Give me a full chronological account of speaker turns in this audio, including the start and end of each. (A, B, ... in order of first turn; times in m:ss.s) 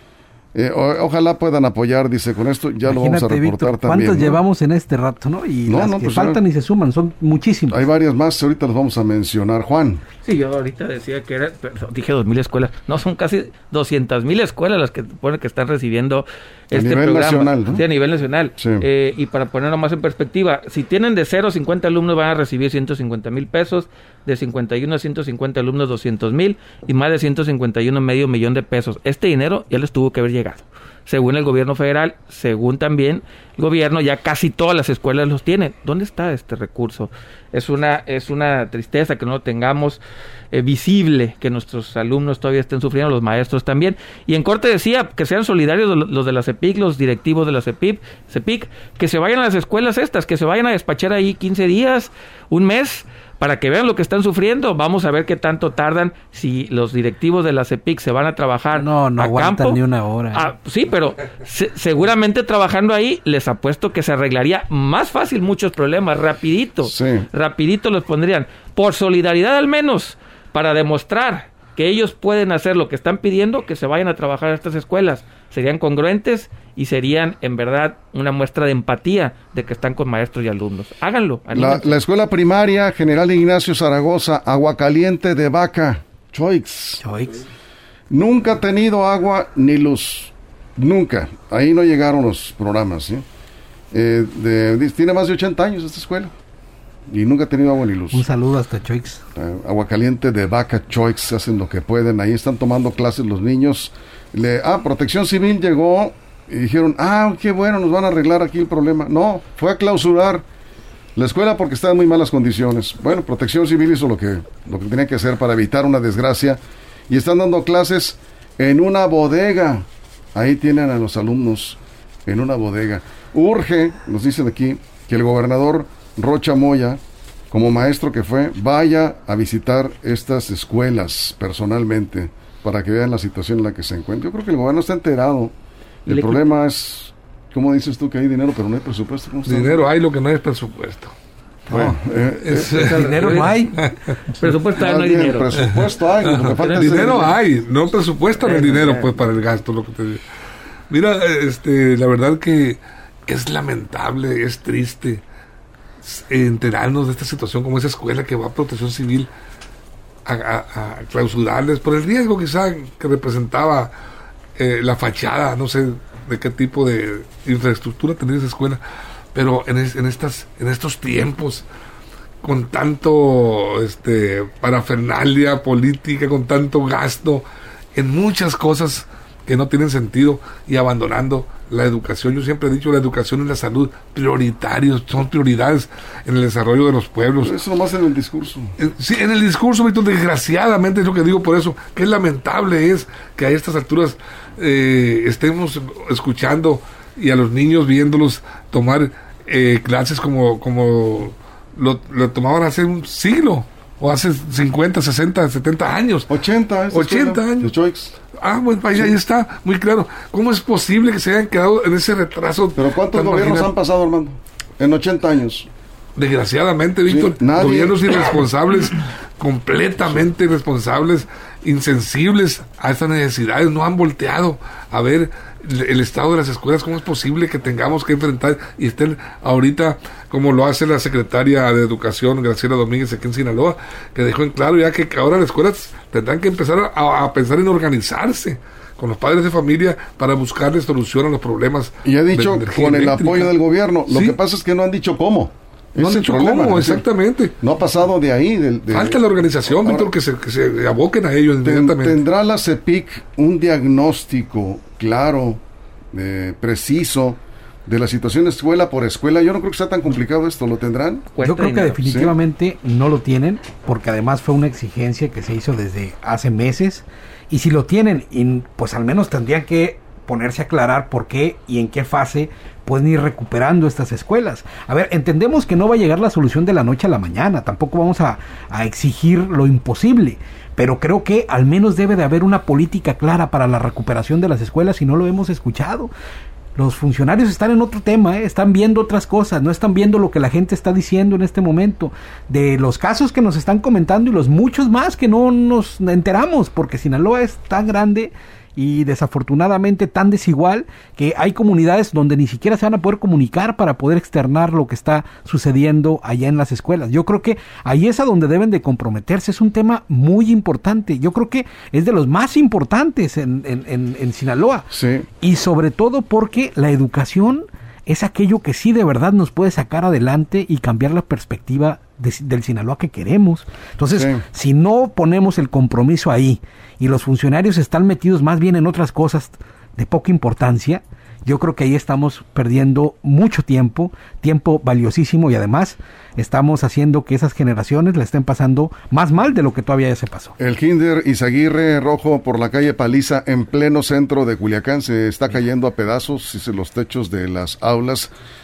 0:00.5-0:04.4 A
0:02.8-0:07.8 B
0:05.6-0:06.4 A
0:07.7-0:10.0 A
0:10.2-0:40.0 C
0:16.7-0:17.8 A
0:18.6-0:18.9 A
0:40.5-0:59.8 C
0:58.7-1:00.5 B
1:00.3-1:21.9 C
1:06.8-1:07.2 A
1:21.5-1:27.0 A
1:27.0-1:27.4 B
1:28.1-1:33.2 A
1:33.9-1:36.3 A
1:37.1-1:38.2 A
1:38.1-1:39.2 B
1:39.4-1:50.4 A
1:51.1-2:07.0 A
2:07.5-2:15.5 A
2:16.0-2:19.9 A
2:16.1-2:16.4 C
2:19.4-2:21.1 D
2:21.7-2:21.9 B
2:21.7-2:22.9 A
2:22.4-2:24.1 D
2:22.7-2:23.8 B
2:22.7-2:25.7 C
2:24.8-2:27.4 A
2:25.6-2:30.2 D
2:26.5-2:27.3 C
2:28.4-2:29.2 C
2:30.9-2:35.2 D
2:36.0-2:39.3 D
2:40.2-2:43.9 D
2:44.6-2:48.8 D
2:49.4-2:51.6 D
2:52.4-3:07.6 D
3:07.4-3:08.7 A
3:08.8-3:26.3 D
3:26.3-3:28.1 A
3:26.9-3:27.7 D
3:28.4-3:33.7 D
3:32.8-3:35.7 A
3:36.2-4:03.5 D
3:37.1-3:38.2 A
4:02.0-4:07.0 A
4:04.1-4:04.4 D
4:06.0-4:07.5 D
4:07.6-4:10.1 A
4:08.9-4:12.2 D
4:11.6-4:15.6 A
4:16.1-4:21.2 A
4:21.3-4:22.0 C
4:21.4-4:46.1 B
4:22.0-4:22.3 A
4:46.8-5:14.9 B
5:14.9-5:15.2 A
5:15.4-5:40.5 B
5:24.1-5:24.4 A
5:40.6-5:48.3 A